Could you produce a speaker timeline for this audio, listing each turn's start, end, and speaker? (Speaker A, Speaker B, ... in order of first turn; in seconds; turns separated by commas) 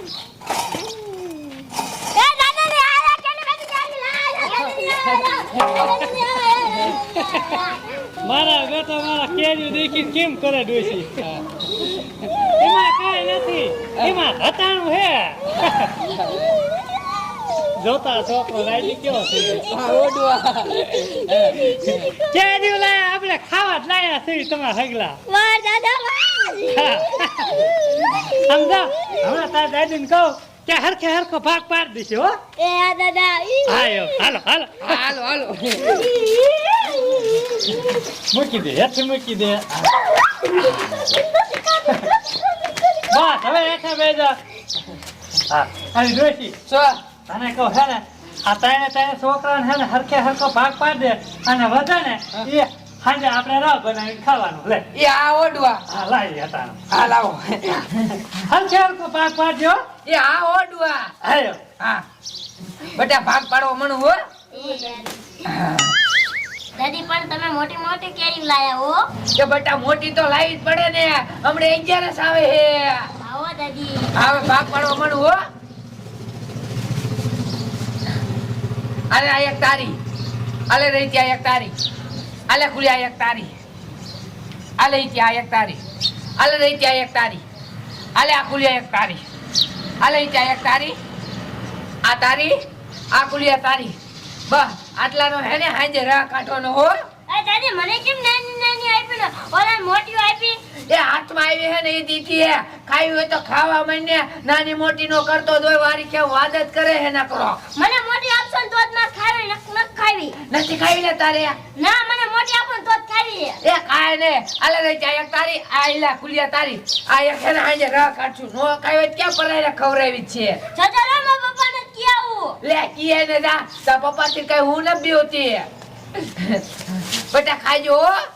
Speaker A: 2.1-7.8, Speaker B: 4.6-5.3, Speaker C: 7.3-7.6, Speaker C: 8.2-11.3, Speaker B: 11.2-12.5, Speaker C: 12.4-16.1, Speaker B: 16.2-16.4, Speaker C: 17.8-19.7, Speaker B: 19.5-22.1, Speaker A: 21.5-21.8, Speaker C: 22.0-25.2, Speaker A: 25.3-28.4, Speaker C: 26.7-32.4, Speaker A: 32.6-34.3, Speaker C: 33.7-35.0, Speaker B: 34.8-36.0, Speaker A: 35.8-38.0, Speaker C: 38.3-40.0, Speaker C: 40.5-41.1, Speaker A: 40.6-42.9, Speaker C: 41.9-42.1, Speaker C: 43.1-44.4, Speaker C: 45.5-46.6, Speaker B: 46.7-47.0, Speaker C: 47.3-54.9, Speaker B: 54.9-55.8, Speaker C: 55.9-56.8, Speaker B: 56.9-57.9, Speaker C: 58.2-59.9, Speaker B: 60.0-61.1, Speaker C: 61.2-61.6, Speaker B: 62.9-64.2, Speaker A: 64.5-65.2, Speaker B: 65.5-65.9, Speaker A: 66.8-69.1, Speaker B: 69.4-73.1, Speaker A: 73.2-74.1, Speaker B: 74.2-75.4, Speaker B: 79.1-80.0, Speaker B: 80.7-81.7, Speaker B: 82.5-83.6, Speaker B: 84.8-85.8, Speaker B: 86.4-87.4, Speaker B: 88.2-89.2, Speaker B: 90.0-91.0, Speaker B: 92.0-92.6, Speaker B: 93.1-94.0, Speaker B: 94.5-97.0, Speaker A: 97.3-100.6, Speaker B: 100.9-107.6, Speaker A: 107.8-110.4, Speaker B: 110.5-111.6, Speaker A: 111.7-113.6, Speaker B: 113.6-120.6, Speaker A: 120.7-122.6, Speaker B: 122.6-128.2